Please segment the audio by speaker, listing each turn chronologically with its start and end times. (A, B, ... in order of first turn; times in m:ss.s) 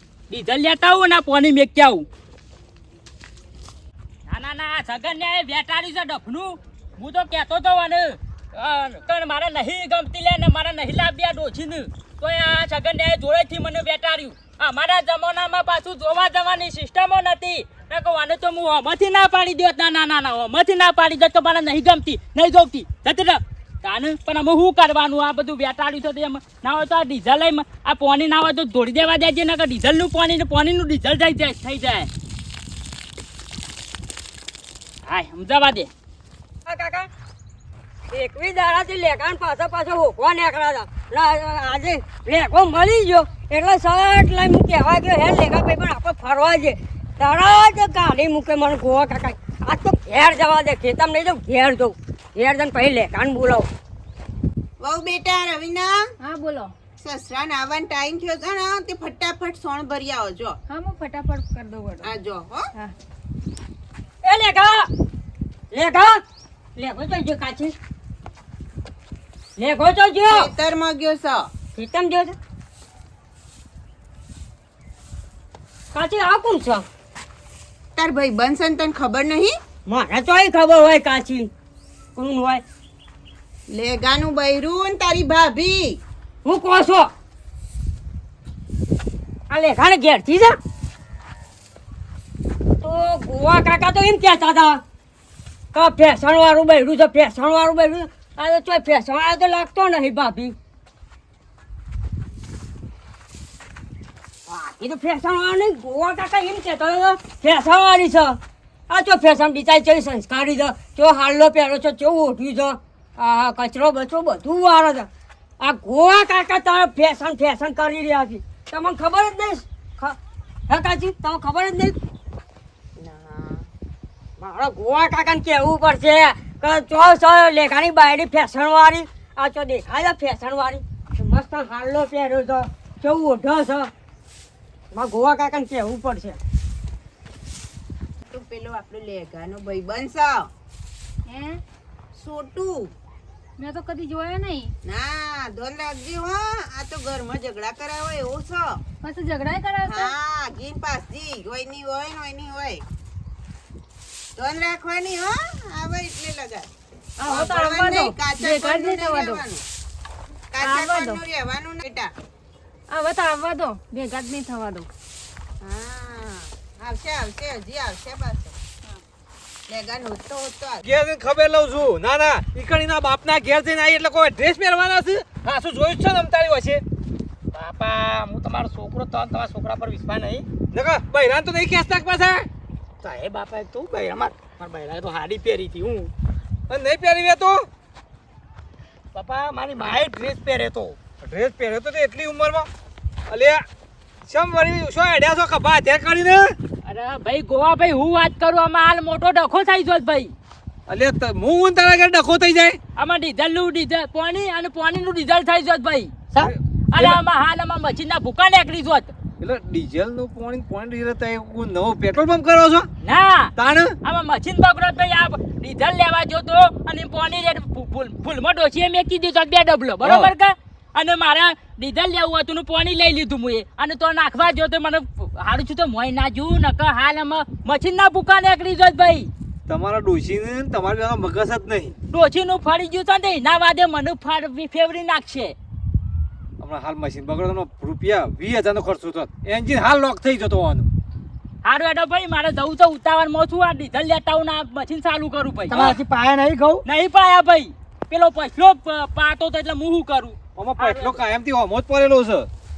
0:00.3-0:02.1 A
0:04.3-0:32.1 A
0:35.1-0:35.9 A
0:36.7-0:37.1 B
0:38.1-0:53.7 B
0:54.8-0:56.0 C
0:56.2-0:56.7 D
0:57.0-1:00.6 C
1:00.7-1:02.1 D
1:02.0-1:02.7 C
1:04.2-1:04.9 B
1:05.7-1:06.2 B
1:06.8-1:07.8 B
1:09.6-1:10.5 B
1:10.3-1:11.5 C
1:11.8-1:12.4 B
1:15.9-1:16.8 B
1:18.0-1:19.5 C
1:19.9-1:21.5 B
1:22.2-1:22.6 B
1:23.7-1:26.0 C
1:26.4-1:27.1 B
1:29.5-1:30.6 B
1:32.8-1:34.8 B
1:35.8-1:40.6 B
1:44.5-1:48.4 B
1:48.9-1:55.1 B
1:55.6-2:00.2 B
2:00.7-2:02.0 B
2:03.0-2:03.7 C
2:04.4-2:13.9 B
2:14.9-2:16.4 B
2:18.3-2:20.5 C
2:21.3-2:21.6 D
2:22.2-2:22.9 C
2:23.6-2:24.7 D
2:24.8-2:28.8 C
2:29.0-2:30.1 D
2:29.9-2:32.8 C
2:34.4-2:36.7 C
2:37.2-2:39.4 D
2:37.3-2:39.6 C
2:40.5-2:42.1 C
2:40.6-2:41.2 D
2:42.9-2:44.9 D
2:45.6-2:48.6 C
2:49.7-2:50.8 C
2:50.8-2:56.8 E
2:57.5-3:00.5 F
3:00.7-3:02.5 E
3:03.0-3:06.1 F
3:06.7-3:07.7 E
3:09.1-3:11.0 F
3:11.2-3:12.7 E
3:13.3-3:13.6 E
3:14.3-3:16.6 E
3:16.8-3:20.3 A
3:20.9-3:22.8 E
3:23.0-3:26.1 A
3:26.4-3:27.2 E
3:26.9-3:29.1 A
3:29.4-3:32.9 E
3:33.0-3:49.3 A
3:33.6-3:34.0 E
3:40.0-3:40.3 E
3:49.7-3:51.9 E
3:52.1-3:55.6 A
3:56.6-4:00.9 E
4:01.6-4:06.0 A
4:05.7-4:06.8 F
4:06.8-4:11.2 A
4:10.6-4:12.5 E